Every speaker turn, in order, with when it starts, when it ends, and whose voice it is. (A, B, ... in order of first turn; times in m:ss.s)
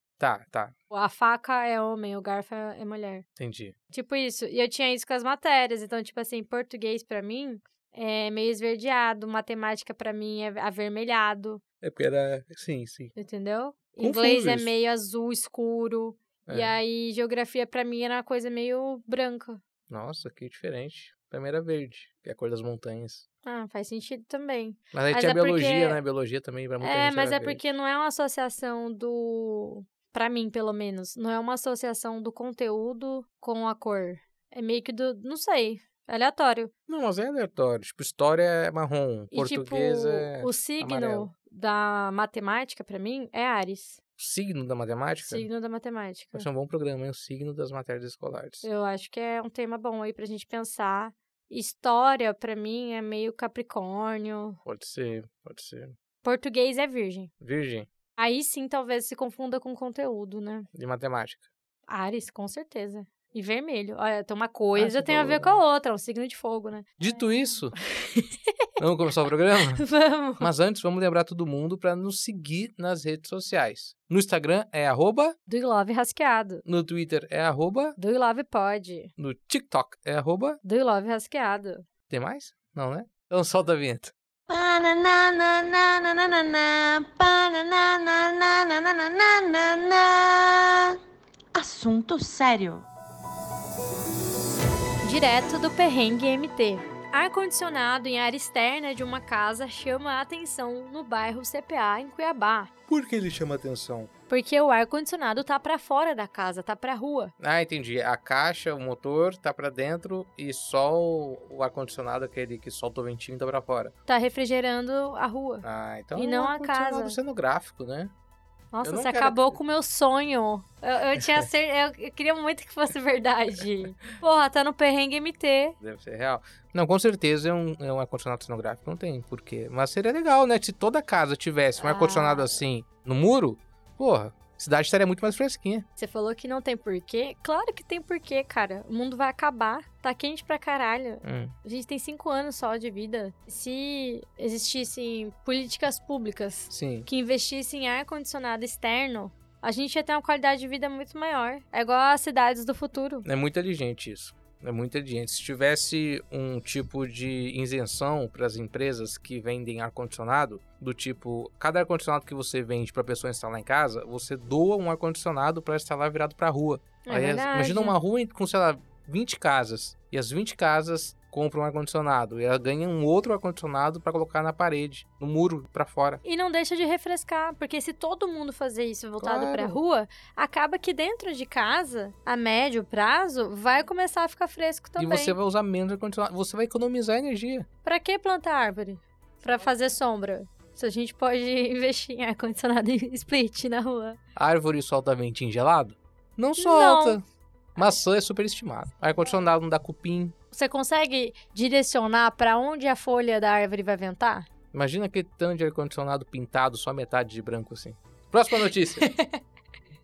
0:00.2-0:00.7 A
0:00.9-0:03.2 B
0:03.4-0:03.8 A
0:03.9-0:11.6 B
0:11.8-0:13.1 A
0:13.2-0:19.6 B
0:14.0-0:14.7 A
0:16.5-0:16.8 A
0:19.9-0:23.2 A
0:23.4-0:26.0 B
0:24.9-0:27.7 A
0:26.8-0:36.7 B
0:36.9-0:41.3 A
0:39.3-0:44.0 B
0:44.2-0:45.5 A
0:45.2-0:46.5 B
0:46.3-0:48.7 A
0:48.6-0:54.6 B
0:54.6-0:55.9 A
0:56.2-0:57.3 B
0:57.4-0:57.9 A
0:58.2-1:00.7 B
1:00.7-1:01.5 A
1:01.9-1:06.9 B
1:04.8-1:05.6 A
1:07.0-1:07.8 A
1:08.0-1:08.6 B
1:08.8-1:09.9 A
1:09.8-1:10.5 B
1:10.4-1:15.4 A
1:15.5-1:16.6 B
1:16.6-1:18.0 A
1:18.0-1:19.1 B
1:19.2-1:20.6 A
1:20.6-1:21.8 B
1:22.1-1:24.1 A
1:24.5-1:31.0 C
1:31.6-1:32.9 C
1:35.0-1:42.7 B
1:42.9-1:44.1 A
1:44.3-1:47.3 B
1:47.4-1:53.9 A
1:54.1-1:57.2 B
1:55.6-1:58.1 A
1:58.7-2:05.8 B
1:58.8-1:59.6 A
2:05.8-2:15.9 A
2:11.8-2:12.6 B
2:16.0-2:33.2 B
2:21.2-2:21.6 A
2:26.7-2:27.1 A
2:33.2-2:56.2 A
2:47.1-2:48.0 B
2:56.2-3:05.4 B
2:59.2-2:59.8 A
3:05.0-3:07.7 A
3:07.8-3:14.2 B
3:14.4-3:17.2 A
3:16.6-3:17.2 B
3:17.8-3:20.3 A
3:20.5-3:24.5 B
3:24.7-3:29.1 A
3:29.0-3:29.4 B